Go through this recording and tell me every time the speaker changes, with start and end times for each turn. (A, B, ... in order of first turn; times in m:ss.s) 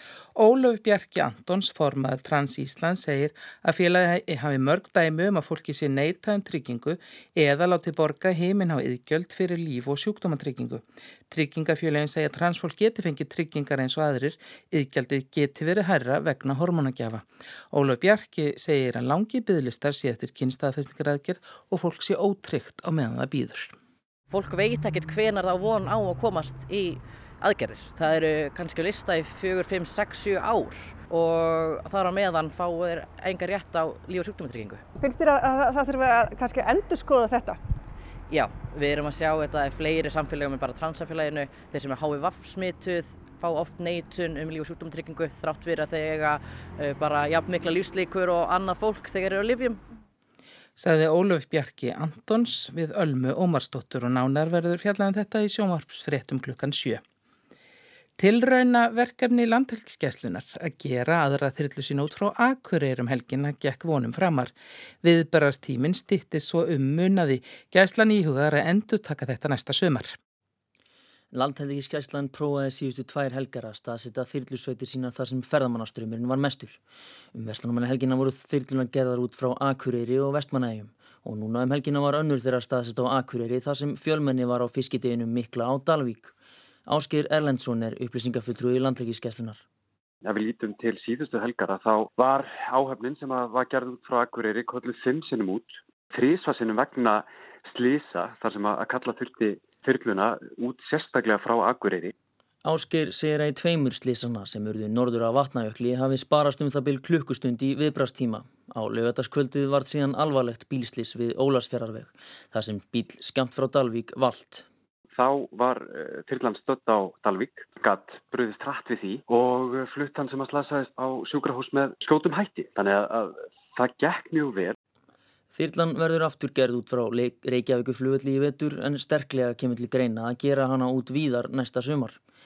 0:00.3-0:23.7 A
0:24.3-0:34.8 B
0:35.0-0:37.6 C
0:38.3-0:49.8 B
0:50.8-0:57.0 A
0:58.2-1:10.2 A
1:11.3-1:16.8 D
1:17.3-1:26.3 D
1:26.9-1:29.6 D
1:30.2-1:42.1 E
1:42.6-1:54.6 D
1:55.1-2:04.8 E
2:05.5-2:12.2 D